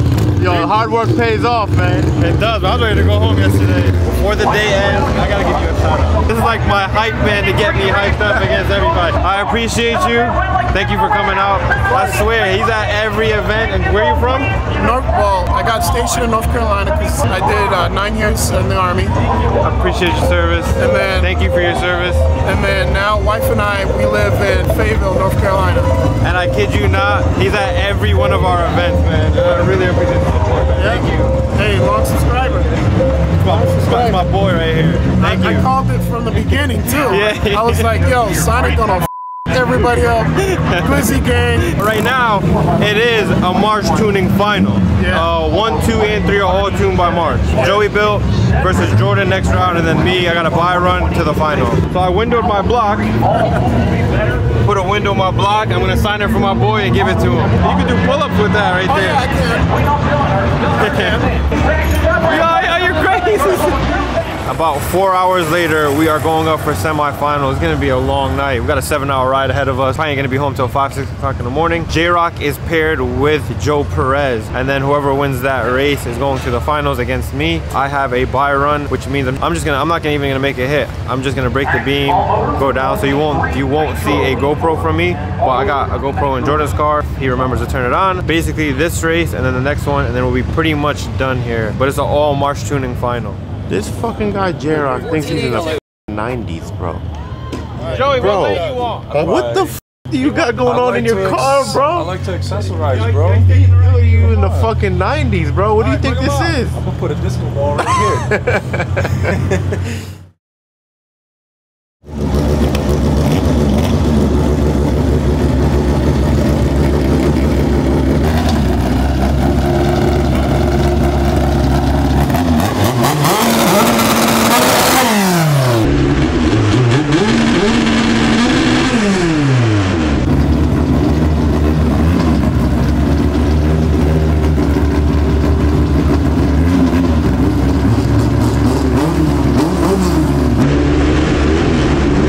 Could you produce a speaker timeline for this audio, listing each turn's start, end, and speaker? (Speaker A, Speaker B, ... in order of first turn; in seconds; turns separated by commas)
Speaker A: 0.4-2.1, Speaker B: 0.4-0.7, Speaker B: 2.1-14.5, Speaker C: 11.9-12.2, Speaker C: 14.8-19.1, Speaker B: 19.6-22.3, Speaker C: 20.8-21.3, Speaker C: 22.4-25.9, Speaker B: 26.2-31.4, Speaker C: 30.7-32.8, Speaker B: 33.4-35.7, Speaker C: 33.4-34.2, Speaker C: 35.2-41.7, Speaker B: 37.0-38.0, Speaker B: 40.4-40.9, Speaker B: 41.6-53.1, Speaker C: 45.0-45.3, Speaker C: 47.5-47.8, Speaker B: 54.6-59.5, Speaker B: 60.7-61.3, Speaker B: 62.2-63.8, Speaker B: 64.5-93.4, Speaker A: 93.7-97.0, Speaker A: 97.8-102.1, Speaker B: 97.8-99.2, Speaker D: 99.1-99.7, Speaker D: 100.6-104.7, Speaker B: 102.9-103.5, Speaker A: 103.0-106.8, Speaker D: 105.8-108.3, Speaker A: 108.3-109.3